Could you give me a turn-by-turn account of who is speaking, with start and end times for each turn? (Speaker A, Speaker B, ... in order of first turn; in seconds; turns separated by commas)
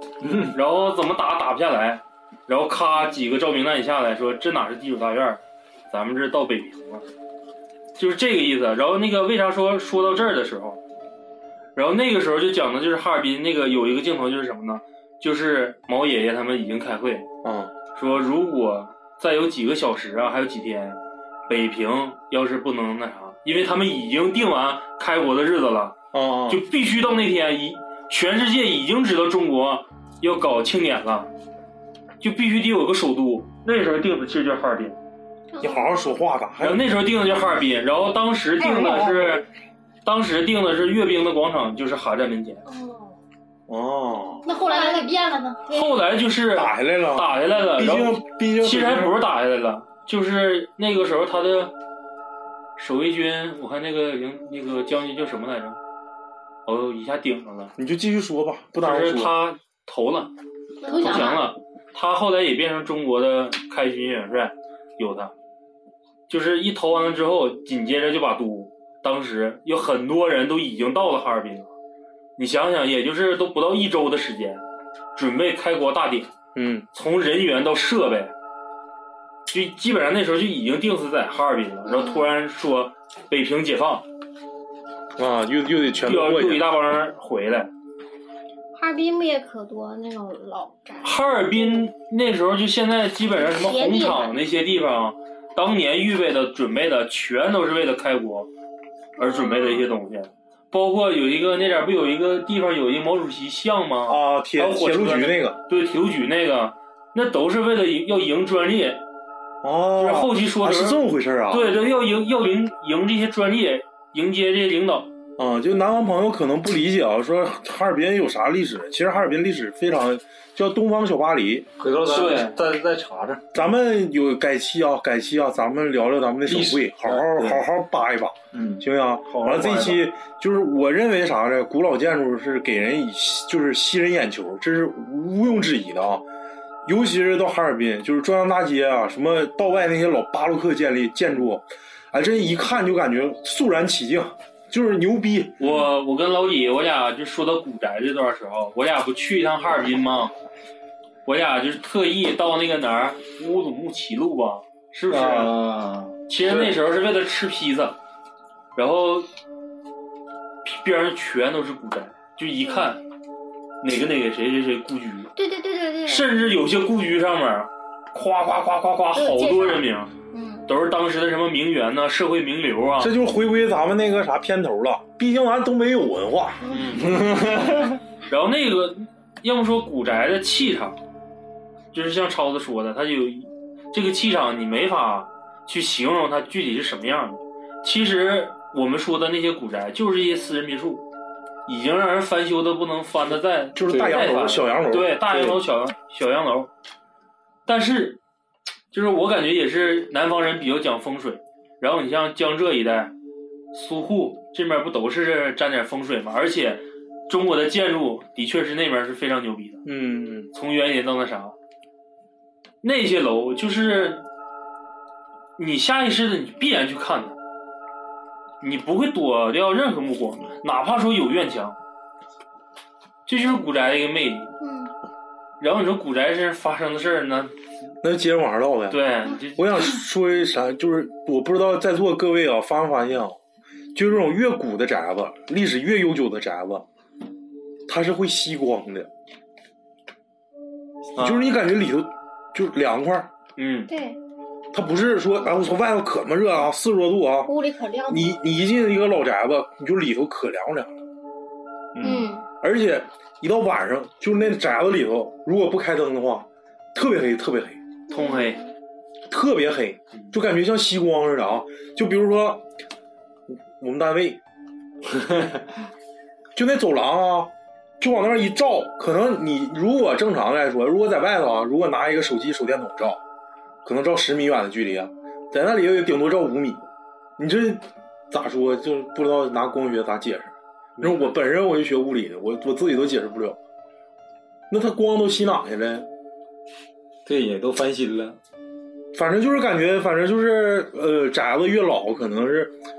Speaker A: 0.2-0.5, Speaker B: 0.5-7.0, Speaker B: 8.0-10.8, Speaker B: 11.7-17.3, Speaker C: 17.4-17.7, Speaker B: 17.9-25.9, Speaker C: 26.1-26.6, Speaker B: 26.5-31.3, Speaker B: 32.2-35.0, Speaker D: 35.5-36.1, Speaker C: 35.6-36.8, Speaker B: 36.6-39.5, Speaker D: 38.8-39.1, Speaker B: 40.0-42.6, Speaker D: 42.6-43.2, Speaker C: 43.7-44.4, Speaker E: 44.4-45.6, Speaker D: 44.5-45.1, Speaker D: 45.7-45.9, Speaker B: 45.7-51.7, Speaker C: 46.5-49.1, Speaker B: 52.8-55.8, Speaker B: 56.6-57.7, Speaker C: 57.8-59.3, Speaker B: 58.8-60.3, Speaker D: 60.8-61.4, Speaker E: 60.8-61.5, Speaker B: 60.9-65.3, Speaker B: 66.3-71.7, Speaker B: 72.4-74.6, Speaker B: 75.1-76.3, Speaker C: 76.5-76.8, Speaker B: 76.9-78.3, Speaker B: 79.5-84.0, Speaker D: 81.8-82.3, Speaker C: 85.2-86.7, Speaker B: 86.0-87.7, Speaker D: 88.7-91.9, Speaker B: 91.0-98.5, Speaker D: 93.3-94.3, Speaker D: 99.2-99.9, Speaker B: 99.2-109.0, Speaker C: 104.1-105.6, Speaker C: 109.6-111.8, Speaker B: 110.0-115.1, Speaker C: 115.4-121.7, Speaker A: 121.8-123.4, Speaker B: 122.1-122.6, Speaker C: 123.5-136.2, Speaker A: 126.4-127.6, Speaker A: 128.5-128.8, Speaker B: 129.3-130.0, Speaker C: 136.8-145.5, Speaker B: 145.6-150.3, Speaker B: 151.2-155.5, Speaker A: 155.1-156.7, Speaker B: 156.3-158.0, Speaker B: 158.7-159.3, Speaker B: 160.6-163.0, Speaker D: 162.7-162.9, Speaker B: 163.8-165.3, Speaker D: 165.3-166.3, Speaker B: 166.0-170.1, Speaker D: 169.1-170.7, Speaker B: 170.7-173.1, Speaker C: 173.0-176.6, Speaker D: 176.6-177.0, Speaker B: 176.7-177.1, Speaker A: 176.9-178.0, Speaker B: 178.3-181.0, Speaker B: 181.9-191.0, Speaker B: 191.7-196.7, Speaker C: 193.7-195.6, Speaker B: 197.7-198.2, Speaker B: 198.9-203.1, Speaker B: 203.7-209.8, Speaker C: 209.8-210.5, Speaker B: 210.5-211.5, Speaker B: 212.8-214.2, Speaker B: 215.6-217.4, Speaker B: 218.6-221.8, Speaker B: 223.3-224.5, Speaker D: 224.6-224.9, Speaker B: 225.6-227.5, Speaker C: 228.0-229.0, Speaker B: 228.9-230.0, Speaker C: 229.6-233.4, Speaker C: 233.9-236.8, Speaker C: 237.9-239.1, Speaker C: 241.2-243.3, Speaker B: 241.2-241.5, Speaker B: 243.6-243.9, Speaker D: 243.9-244.2, Speaker C: 244.7-247.5, Speaker D: 247.4-248.4, Speaker C: 248.1-250.9, Speaker C: 251.9-257.8, Speaker E: 252.0-252.4, Speaker D: 258.1-258.6, Speaker B: 258.1-258.6, Speaker C: 259.3-262.6, Speaker C: 263.8-264.4, Speaker C: 266.6-273.2, Speaker C: 273.8-276.8, Speaker C: 277.4-283.6, Speaker C: 284.7-286.1, Speaker A: 287.2-288.4, Speaker C: 289.1-292.8